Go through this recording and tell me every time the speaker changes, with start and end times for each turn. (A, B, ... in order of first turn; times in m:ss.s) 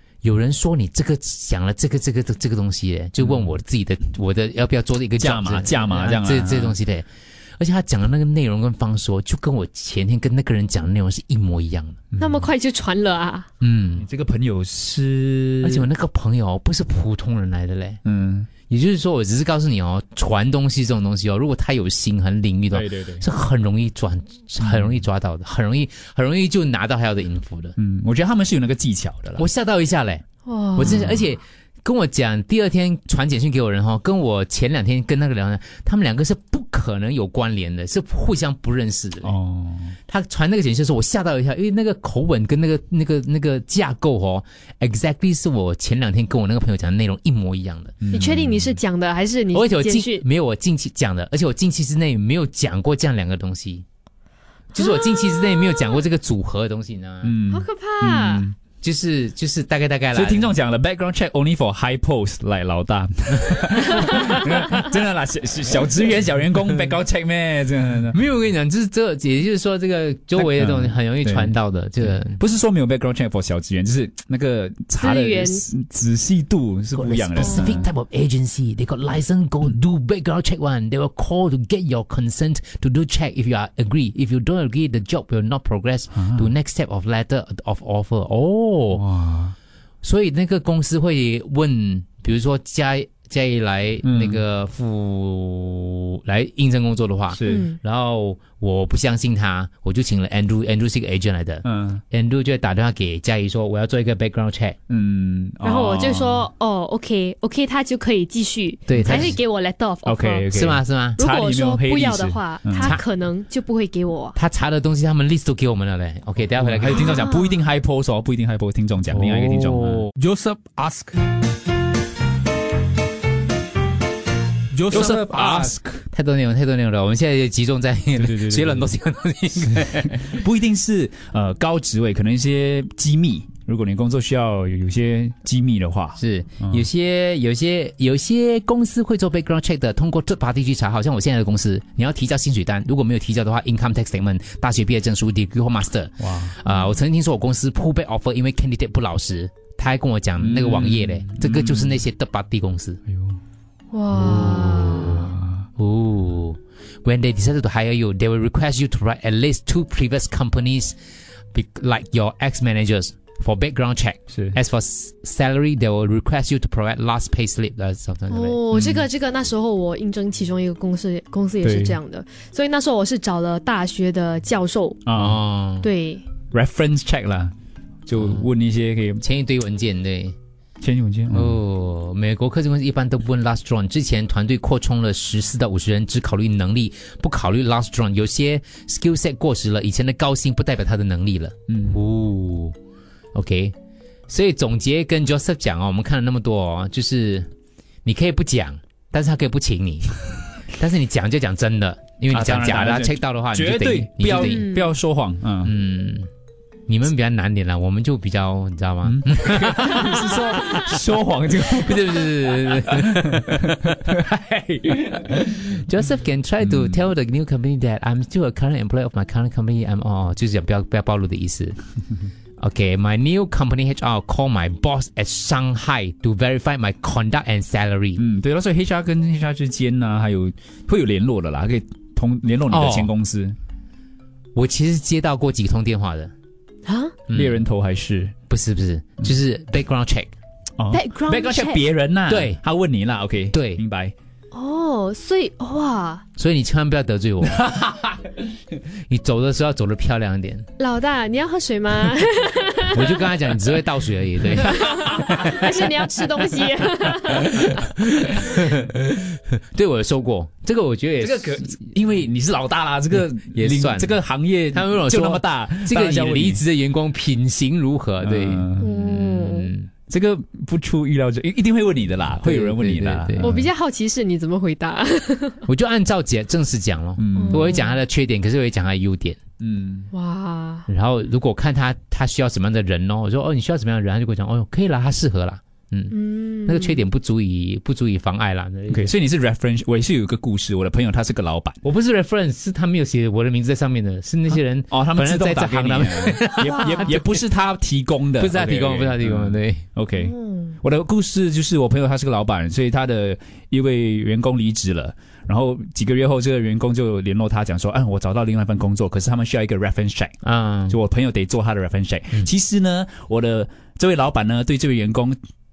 0:00.2-0:07.1 A
0:03.2-0:03.6 B
0:05.2-0:06.8 B
0:07.6-0:12.0 A
0:12.1-0:12.5 B
0:12.2-0:13.5 C
0:13.6-0:14.1 A
0:14.0-0:15.9 B
0:15.6-0:18.0 A
0:18.0-0:18.5 B
0:18.7-0:27.8 A
0:22.7-0:23.2 B
0:24.6-0:25.0 B
0:27.8-0:29.4 B
0:29.4-0:39.4 A
0:30.5-0:31.0 C
0:30.8-0:31.2 B
0:39.2-0:40.0 B
0:40.1-0:48.0 A
0:48.0-0:48.8 B
0:48.1-0:50.2 C
0:49.5-0:53.8 A
0:54.7-0:57.4 A
0:55.3-0:56.0 C
0:57.2-0:58.5 B
0:57.5-0:58.5 C
0:58.8-1:00.5 A
1:00.1-1:08.2 B
1:08.1-1:12.4 A
1:10.4-1:17.9 B
1:15.0-1:15.7 C
1:17.0-1:29.0 A
1:17.4-1:17.7 C
1:26.1-1:26.5 B
1:28.9-1:29.6 B
1:30.0-1:44.8 A
1:34.0-1:34.4 B
1:37.3-1:37.6 B
1:37.4-1:37.8 C
1:41.6-1:42.0 B
1:44.9-1:46.5 B
1:45.6-1:50.5 C
1:48.9-1:49.4 A
1:48.9-1:49.4 B
1:50.0-1:53.0 B
1:50.5-1:51.2 A
1:51.2-1:54.4 C
1:54.4-1:57.1 A
1:56.5-2:00.1 B
1:56.9-1:57.6 C
1:59.1-2:00.1 A
2:00.2-2:01.2 D
2:04.7-2:05.6 D
2:04.9-2:06.0 B
2:05.0-2:10.4 A
2:08.2-2:08.8 B
2:10.3-2:16.8 B
2:16.2-2:33.0 A
2:26.2-2:26.6 B
2:30.4-2:32.0 B
2:33.1-2:33.4 B
2:33.9-2:35.2 C
2:34.1-2:41.0 A
2:35.1-2:35.6 B
2:41.5-2:48.6 A
2:44.3-2:44.6 B
2:48.3-2:55.0 C
2:48.7-2:49.1 B
2:51.6-2:52.0 B
2:55.1-2:55.4 B
2:55.1-2:55.9 A
2:55.8-2:56.2 C
2:56.5-2:57.5 B
2:58.1-2:59.2 B
2:58.2-2:58.5 A
2:59.2-3:00.4 A
3:00.8-3:01.6 B
3:01.3-3:12.8 A
3:11.7-3:12.0 B
3:13.3-3:13.7 A
3:14.3-3:17.5 A
3:18.0-3:20.1 A
3:20.7-3:24.6 A
3:22.3-3:25.7 B
3:24.4-3:24.9 C
3:25.6-3:26.3 A
3:26.9-3:30.2 A
3:29.0-3:35.1 B
3:31.7-3:33.6 A
3:35.7-3:41.8 A
3:36.6-3:37.0 B
3:42.6-3:48.2 A
3:48.2-3:53.6 B
3:52.7-3:53.1 A
3:54.6-3:56.3 A
3:56.9-3:57.2 C
3:57.3-3:57.6 A
3:57.3-3:58.3 B
3:58.5-4:00.3 A
4:00.8-4:04.1 B
4:00.9-4:01.8 C
4:02.3-4:02.6 A
4:03.5-4:03.8 A
4:04.5-4:06.2 C
4:06.4-4:07.7 A
4:08.9-4:10.7 A
4:10.8-4:13.0 C
4:12.9-4:14.9 A
4:14.6-4:17.7 C
4:17.4-4:21.9 A
4:21.2-4:26.6 B
4:23.1-4:24.2 A
4:24.7-4:29.9 A
4:28.2-4:28.9 B
4:28.8-4:29.7 C
4:30.1-4:33.7 B
4:32.4-4:33.6 A
4:33.4-4:35.6 C
4:35.7-4:39.4 A
4:37.2-4:37.7 B
4:37.3-4:38.0 C
4:39.6-4:40.1 B
4:40.1-4:40.9 C
4:40.9-4:49.1 A
4:46.1-4:47.0 C
4:48.9-4:51.8 B
4:51.8-4:57.4 A
4:54.5-5:10.4 B
4:58.4-4:59.9 A
5:00.2-5:00.8 C
5:10.4-5:11.0 A
5:10.9-5:15.4 B